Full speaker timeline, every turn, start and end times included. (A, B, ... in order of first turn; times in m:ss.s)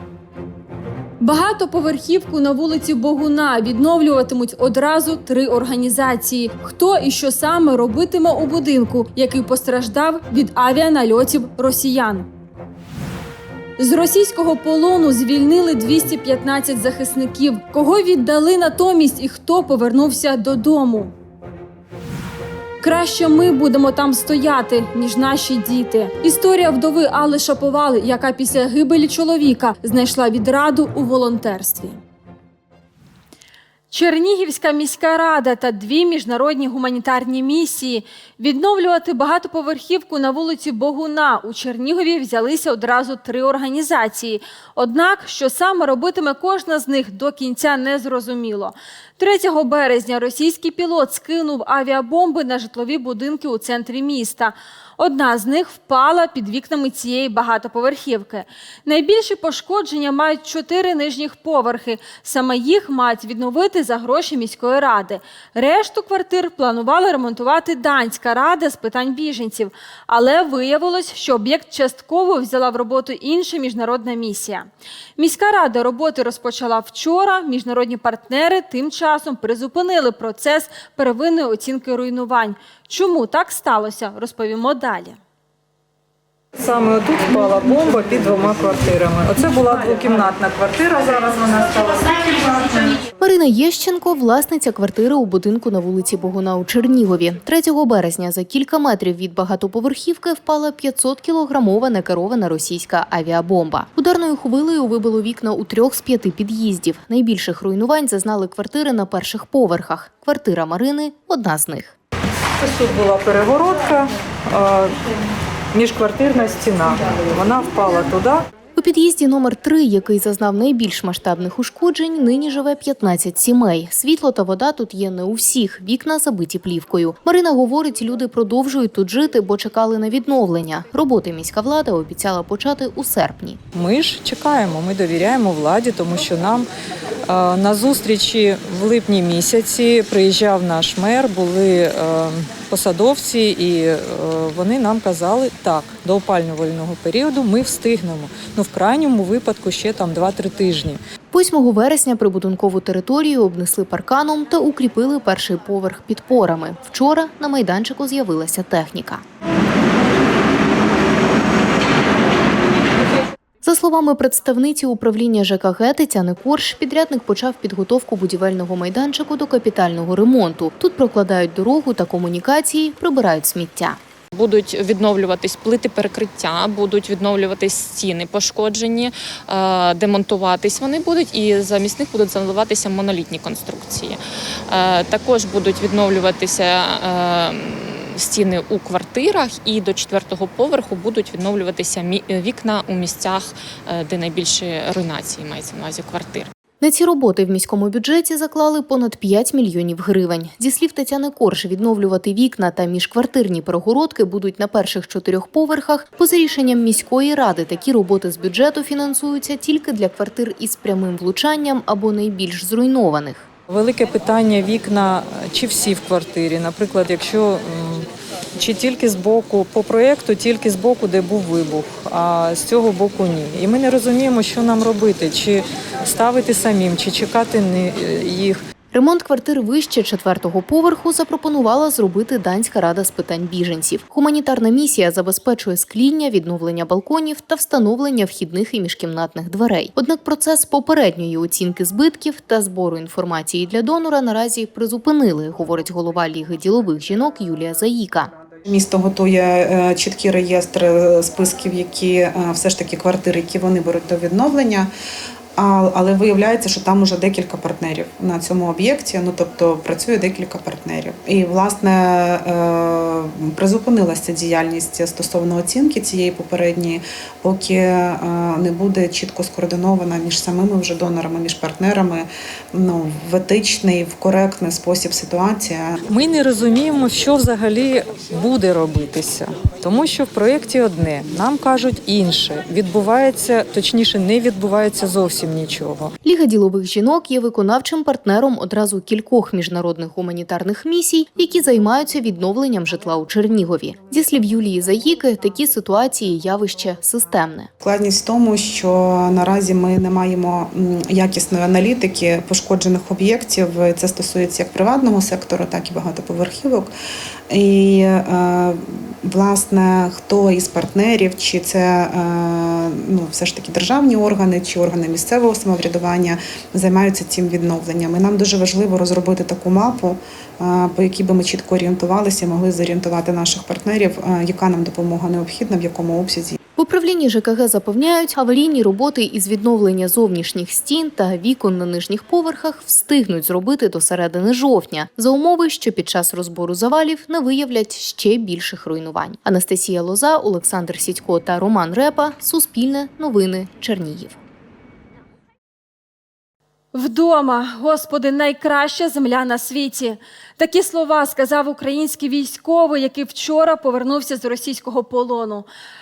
0:01.2-0:12.3 A
0:13.8-0:21.1 A
0:22.8-0:32.0 A
0:33.9-1:25.2 A
1:26.6-1:33.0 B
1:33.2-1:51.9 C
1:52.6-1:54.9 B
1:55.7-1:58.4 B
1:58.8-2:13.6 C
2:13.7-2:16.7 B
2:17.3-2:31.0 B
2:31.3-2:39.2 C
2:43.6-2:54.0 C
2:54.3-3:16.5 D
3:16.8-3:33.4 C
3:33.7-3:38.1 B
3:38.6-3:48.6 B
3:48.9-4:08.3 C
4:08.6-4:14.9 E
4:15.6-4:36.0 E
4:36.1-4:46.1 B
4:46.2-4:57.7 C
4:57.8-5:06.9 E
5:07.5-5:26.6 E
5:26.8-5:44.4 C
5:46.9-5:55.7 A